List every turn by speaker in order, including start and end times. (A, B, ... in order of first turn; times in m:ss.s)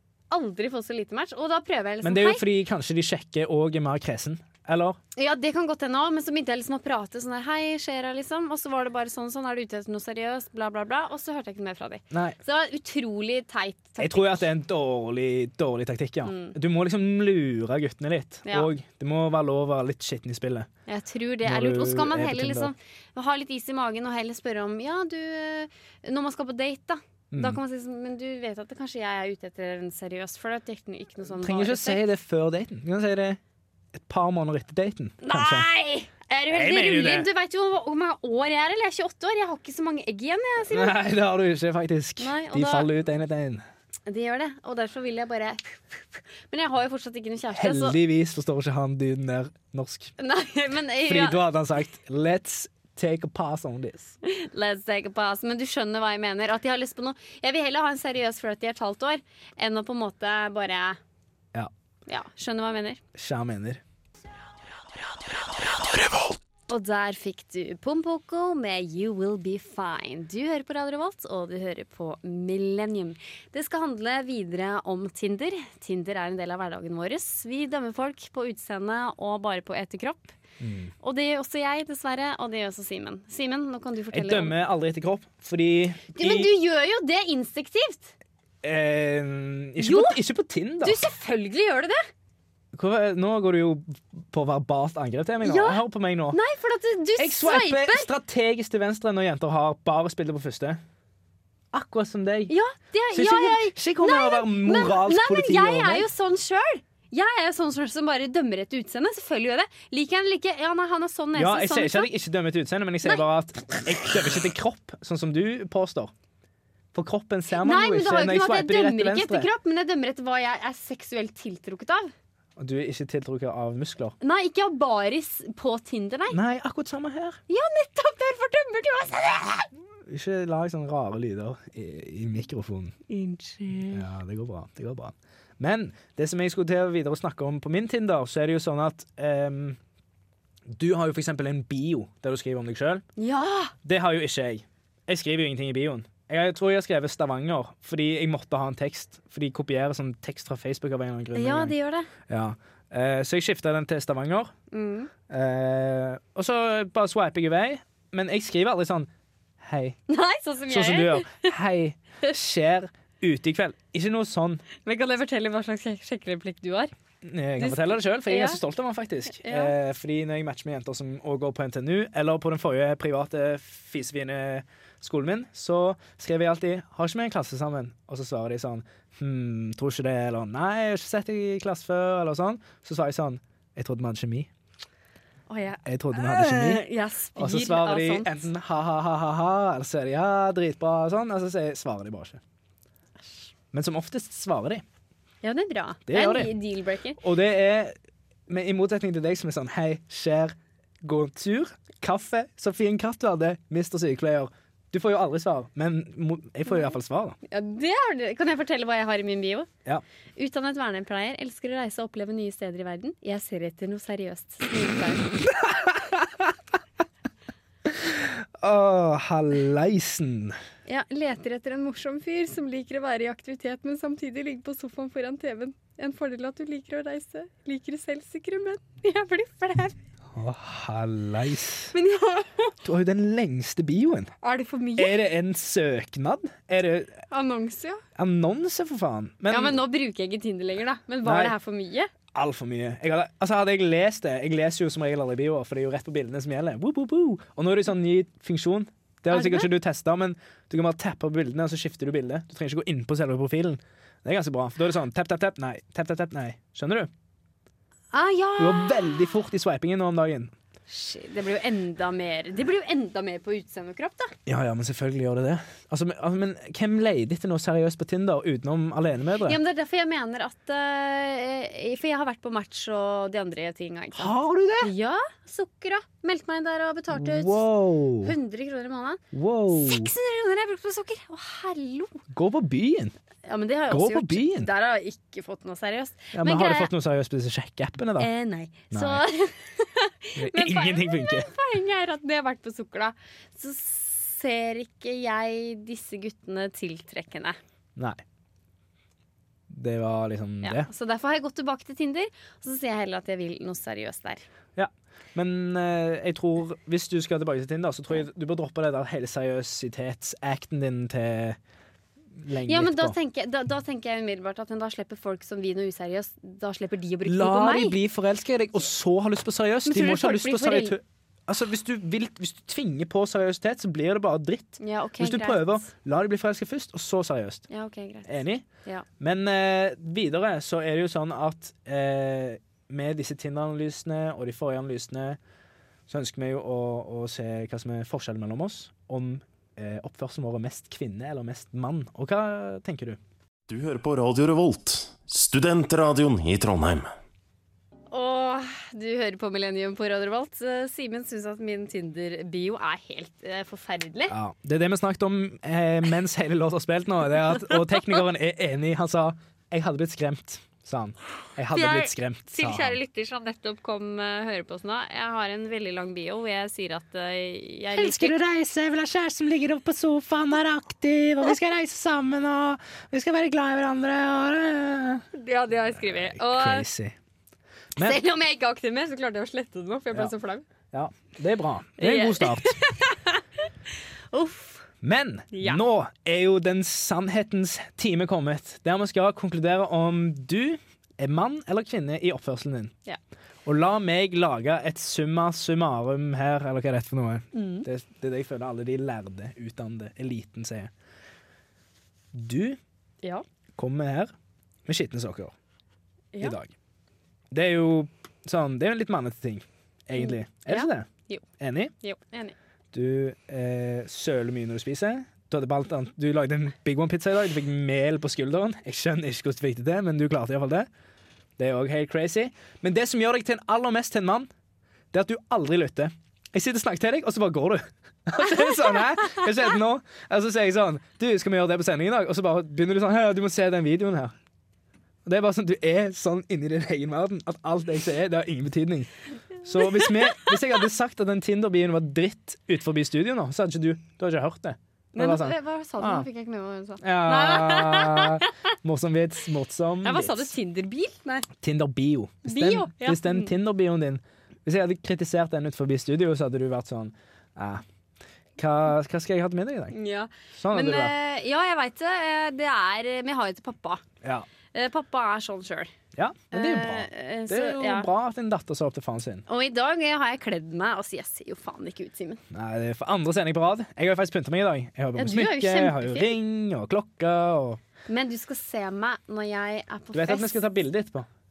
0:00.3-0:02.4 A
0:02.0-0:05.0 B
0:05.2-0:14.4 A
0:12.1-0:12.4 B
0:14.0-0:20.7 B
0:16.2-0:16.6 A
0:18.4-0:18.7 A
0:20.9-0:32.0 A
0:21.4-0:22.7 B
0:27.3-0:27.6 B
0:31.3-0:33.4 B
0:33.9-0:35.7 B
0:35.2-0:40.9 A
0:36.5-0:37.3 B
0:40.7-0:43.6 B
0:42.2-0:42.9 A
0:44.0-0:48.0 A
0:47.5-0:50.1 B
0:50.2-0:51.4 A
0:51.0-0:54.1 B
0:54.2-1:01.0 A
1:02.1-1:03.0 A
1:03.1-1:03.8 B
1:06.7-1:20.3 A
1:20.6-1:20.9 B
1:21.0-1:24.6 A
1:24.1-1:26.5 B
1:26.1-1:28.1 A
1:28.6-1:31.0 B
1:29.8-1:30.2 A
1:30.8-1:32.0 A
1:32.7-1:36.4 B
1:35.4-1:38.1 A
1:37.2-1:40.8 B
1:41.7-1:42.5 B
1:42.5-1:52.1 A
1:43.1-1:46.1 B
1:51.3-1:56.1 B
1:56.9-1:59.5 B
1:57.6-2:02.1 A
2:02.6-2:04.1 B
2:04.2-2:06.4 A
2:06.3-2:07.4 B
2:07.5-2:09.7 A
2:10.0-2:12.9 B
2:13.1-2:14.0 A
2:13.9-2:19.8 B
2:20.7-2:23.0 B
2:23.2-2:23.7 A
2:23.8-2:31.7 B
2:31.3-2:32.1 A
2:32.3-2:34.5 B
2:34.7-2:35.1 A
2:35.3-2:40.0 B
2:40.1-2:41.5 A
2:40.7-2:44.6 B
2:44.8-2:46.9 A
2:47.2-3:04.5 B
2:47.6-2:48.6 A
2:49.3-2:49.7 A
3:05.5-3:08.4 A
3:05.8-3:06.8 B
3:07.4-3:12.4 B
3:13.7-3:14.8 B
3:15.4-3:17.2 A
3:16.1-3:16.6 B
3:17.2-3:17.9 B
3:18.5-3:27.4 B
3:27.5-3:29.7 A
3:30.4-3:35.5 A
3:35.9-3:36.2 B
3:37.8-3:40.6 B
3:40.9-3:50.0 A
3:50.3-3:51.9 B
3:51.9-3:52.7 A
3:52.8-3:54.3 B
3:54.4-3:55.2 A
3:55.0-3:57.2 B
3:57.3-3:58.0 A
3:58.1-3:59.8 B
3:59.5-4:02.1 A
4:01.2-4:01.5 B
4:02.3-4:17.1 B
4:09.3-4:09.7 A
4:18.1-4:19.3 A
4:18.6-4:20.5 B
4:20.9-4:24.3 A
4:24.4-4:29.6 B
4:29.4-4:37.6 A
4:34.1-4:34.9 B
4:37.1-4:38.3 B
4:38.2-4:42.2 A
4:39.3-4:40.1 B
4:42.3-4:43.1 B
4:43.4-4:46.9 A
4:43.9-4:44.7 B
4:46.3-4:48.3 B
4:48.2-4:57.6 A
4:48.9-4:49.2 B
4:50.4-4:51.5 B
4:58.0-4:58.2 B
4:59.7-5:00.9 B
5:00.6-5:04.4 A
5:04.8-5:11.6 B
5:12.4-5:13.2 B
5:12.6-5:18.0 A
5:17.2-5:27.7 B
5:19.8-5:21.0 A
5:24.8-5:25.9 A
5:27.7-5:29.0 A
5:28.2-5:28.6 B
5:29.2-5:35.4 B
5:36.1-5:43.2 B
5:43.7-5:47.1 C
5:48.1-5:54.3 A
5:54.3-6:03.0 B
6:01.7-6:08.4 A
6:08.0-6:15.2 B
6:15.3-6:16.9 A
6:15.9-6:17.2 B
6:18.0-6:20.6 A
6:20.9-6:22.8 B
6:22.0-6:23.4 A
6:24.3-6:24.8 A
6:25.0-6:32.9 B
6:25.5-6:25.8 A
6:33.6-6:40.9 B
6:37.5-6:37.9 A
6:42.3-6:42.8 B
6:43.8-6:44.3 B
6:44.8-6:45.5 B
6:46.4-6:46.7 B
6:47.5-6:51.9 B
6:50.2-6:51.4 A
6:52.0-6:52.5 A
6:52.9-7:00.9 B
7:01.6-7:04.5 B
7:05.1-7:14.3 B
7:15.2-7:19.1 B
7:19.6-7:26.2 B
7:25.1-7:28.5 A
7:27.0-7:30.5 B
7:30.0-7:31.5 A
7:31.6-7:37.8 B
7:32.4-7:33.5 A
7:38.6-7:39.9 B
7:39.9-7:44.0 A
7:40.6-7:41.1 B
7:44.7-7:45.9 A
7:46.1-7:49.4 B
7:46.5-7:48.1 A
7:49.5-7:52.4 A
7:52.5-7:57.8 B
7:55.2-7:56.3 A
7:58.1-8:00.6 A
8:00.1-8:01.3 B